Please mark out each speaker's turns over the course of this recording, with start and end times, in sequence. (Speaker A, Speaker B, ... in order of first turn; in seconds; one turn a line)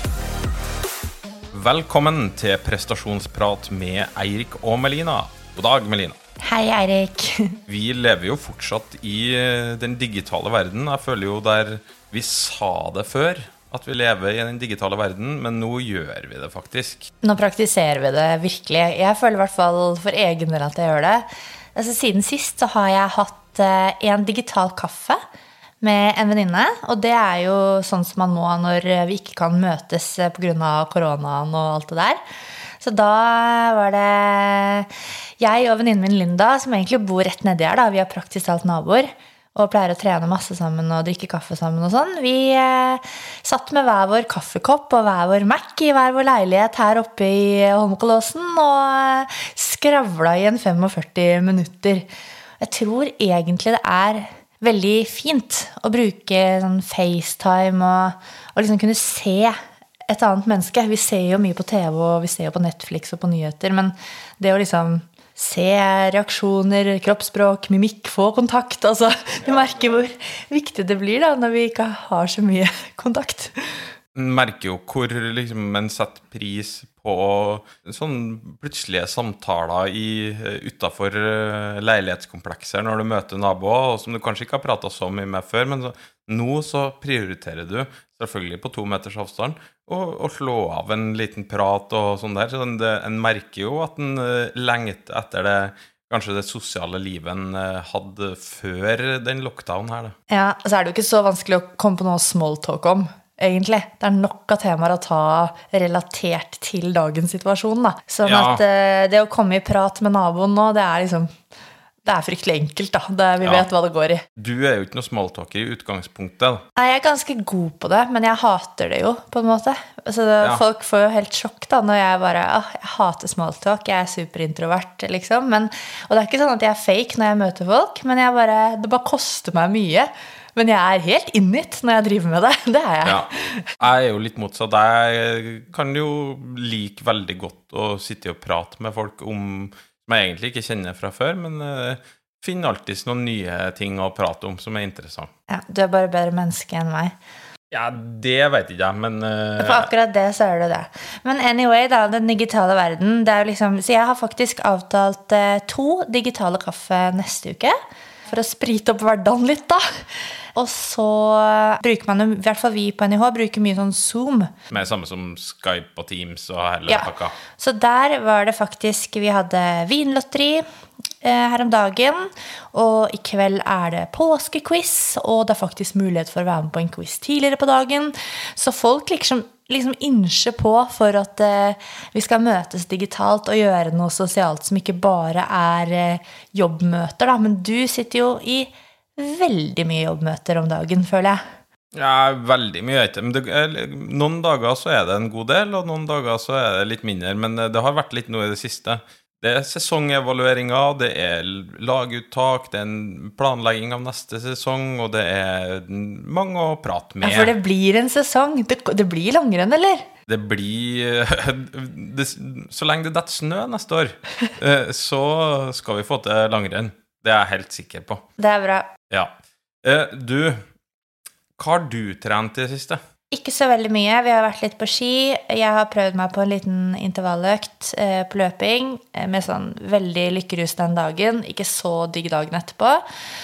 Speaker A: 1.5-6.2
Speaker B: 6.4-7.6
Speaker A: 7.7-17.1
Speaker B: 17.2-25.2
Speaker B: 25.8-32.2
Speaker B: 32.8-52.1
Speaker B: 52.6-73.9
Speaker A: 69.5-70.0
Speaker A: 74.1-100.2
Speaker B: 100.3-111.3
Speaker A: 108.2-108.6
Speaker B: 112.0-114.2
Speaker A: 113.4-113.7
Speaker A: 114.4-116.6
Speaker B: 116.8-133.7
Speaker A: 133.0-145.3
Speaker B: 145.5-147.1
Speaker A: 147.7-149.9
Speaker B: 149.6-157.7
Speaker B: 158.3-164.5
Speaker A: 164.7-167.3
Speaker B: 166.9-170.6
Speaker B: 171.2-191.4
Speaker A: 191.9-207.5
Speaker B: 207.2-210.1
Speaker A: 210.3-218.2
Speaker B: 218.4-218.9
Speaker A: 219.8-220.6
Speaker A: 221.6-223.0
Speaker B: 223.3-233.0